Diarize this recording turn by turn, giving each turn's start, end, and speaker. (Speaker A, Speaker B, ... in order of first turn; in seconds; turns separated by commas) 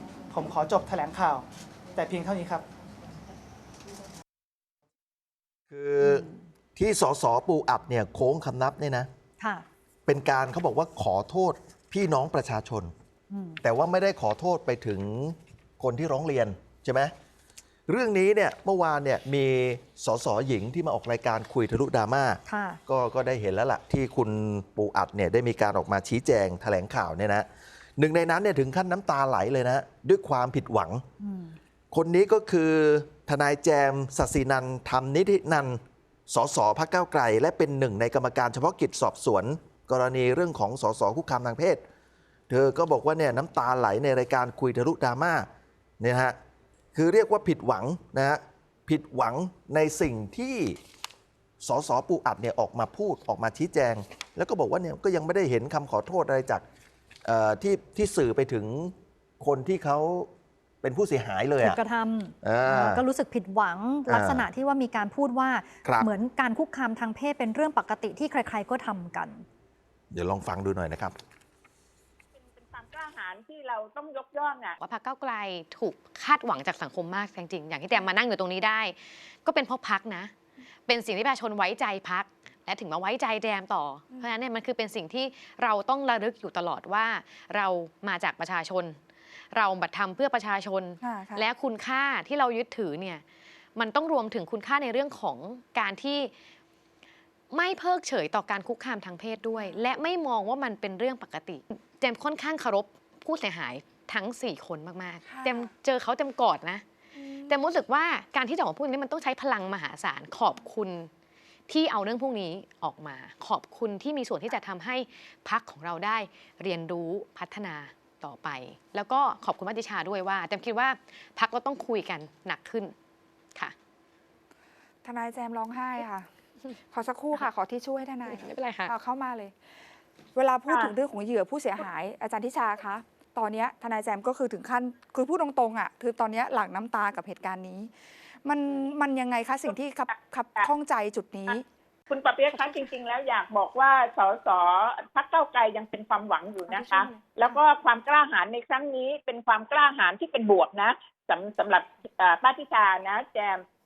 Speaker A: 0.3-2.6, Speaker B: 5.7-9.1, Speaker C: 6.0-6.4, Speaker C: 9.4-9.6, Speaker B: 10.1-12.9, Speaker C: 13.3-13.6, Speaker B: 13.6-17.1, Speaker B: 17.9-31.0, Speaker C: 22.5-22.8, Speaker C: 31.2-31.6, Speaker B: 31.9-41.8, Speaker B: 42.5-45.5, Speaker B: 46.0-46.4, Speaker B: 46.9-50.8, Speaker B: 51.6-56.6, Speaker B: 57.2-60.3, Speaker B: 60.8-61.8, Speaker C: 61.6-69.4, Speaker B: 62.4-63.0, Speaker B: 64.1-64.5, Speaker B: 70.1-71.1, Speaker D: 72.3-74.8, Speaker E: 74.8-80.3, Speaker E: 80.9-89.0, Speaker E: 89.5-93.2, Speaker F: 91.0-91.5, Speaker E: 93.7-96.3, Speaker E: 97.5-111.1, Speaker F: 99.5-100.0, Speaker F: 105.2-105.7, Speaker F: 107.2-107.6, Speaker E: 111.7-122.9, Speaker F: 125.0-126.3, Speaker F: 126.9-129.6, Speaker E: 128.2-128.9, Speaker F: 130.3-141.6, Speaker D: 130.7-130.9, Speaker D: 140.1-140.7, Speaker D: 142.1-153.6, Speaker F: 146.7-147.6